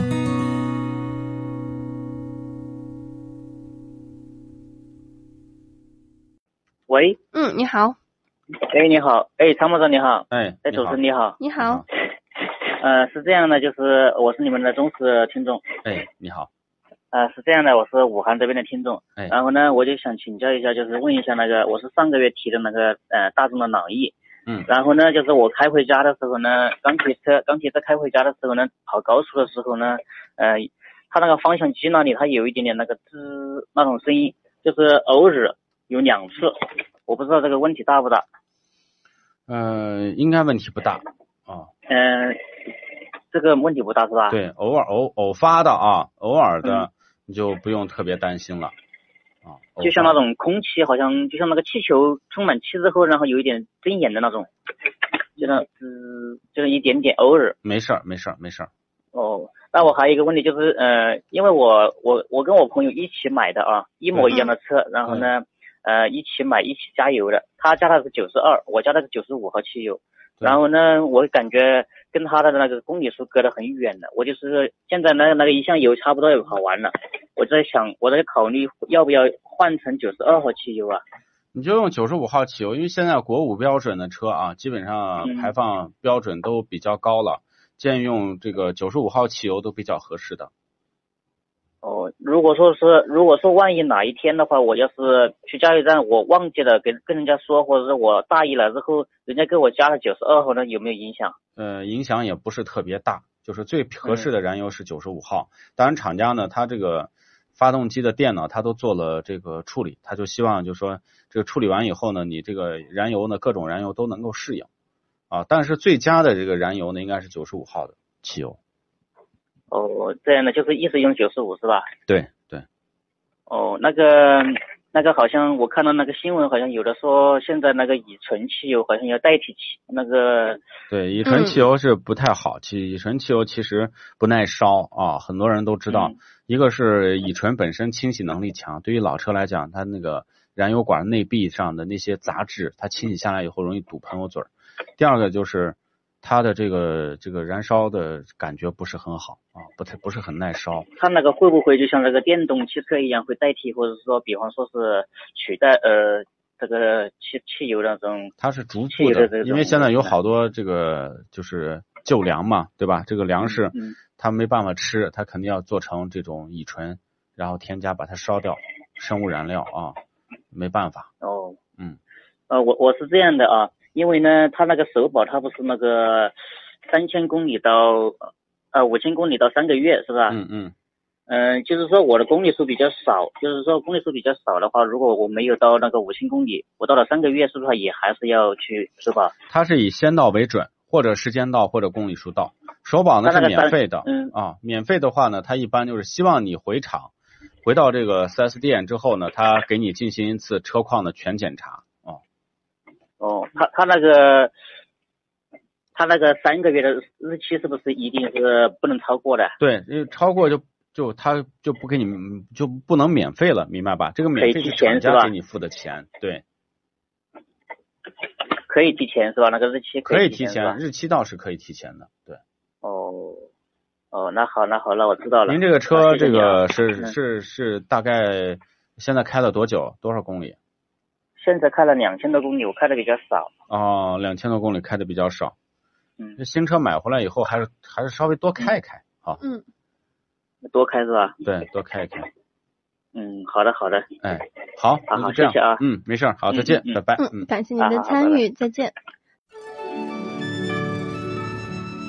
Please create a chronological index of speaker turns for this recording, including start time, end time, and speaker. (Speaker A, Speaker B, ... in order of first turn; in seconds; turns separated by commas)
Speaker A: 6.9-7.2, Speaker B: 7.3-8.0, Speaker A: 8.6-11.4, Speaker C: 10.3-11.0, Speaker B: 11.4-11.8, Speaker C: 11.6-11.8, Speaker A: 12.4-15.7, Speaker C: 15.8-16.5, Speaker A: 17.1-24.1, Speaker A: 24.7-38.3, Speaker C: 39.5-41.7, Speaker A: 41.9-42.4, Speaker A: 43.3-44.4, Speaker C: 44.3-48.7, Speaker C: 49.5-50.2, Speaker A: 49.8-54.5, Speaker A: 55.4-57.5, Speaker C: 57.6-58.7, Speaker A: 59.1-81.0, Speaker C: 64.1-64.5, Speaker C: 65.0-65.3, Speaker C: 81.5-90.5, Speaker A: 85.2-85.5, Speaker A: 91.8-101.3, Speaker C: 101.6-114.7, Speaker C: 115.3-118.6, Speaker A: 119.7-121.9, Speaker C: 122.1-122.7, Speaker A: 123.5-130.6, Speaker C: 130.9-150.9, Speaker B: 131.2-131.6, Speaker A: 135.9-136.2, Speaker A: 151.0-158.3, Speaker C: 158.4-170.0, Speaker A: 158.9-160.2, Speaker A: 163.4-164.0, Speaker C: 170.5-171.1, Speaker A: 171.2-171.6, Speaker A: 172.5-176.3, Speaker A: 176.9-180.4, Speaker C: 180.3-180.7, Speaker A: 181.3-189.3, Speaker C: 189.5-197.1, Speaker A: 193.2-194.3, Speaker C: 197.6-202.2, Speaker A: 203.2-204.5, Speaker A: 205.9-209.6, Speaker C: 209.6-216.4, Speaker A: 214.4-215.3, Speaker A: 218.7-220.8, Speaker C: 220.1-222.4, Speaker A: 222.8-223.5, Speaker A: 224.1-227.1, Speaker C: 225.5-230.6, Speaker A: 231.4-233.5, Speaker C: 233.7-235.5, Speaker C: 236.4-239.4, Speaker A: 240.7-241.4, Speaker C: 241.4-242.3, Speaker A: 243.1-244.1, Speaker C: 244.2-247.5, Speaker A: 245.1-245.8, Speaker A: 246.5-247.0, Speaker B: 247.2-248.9, Speaker A: 247.8-248.4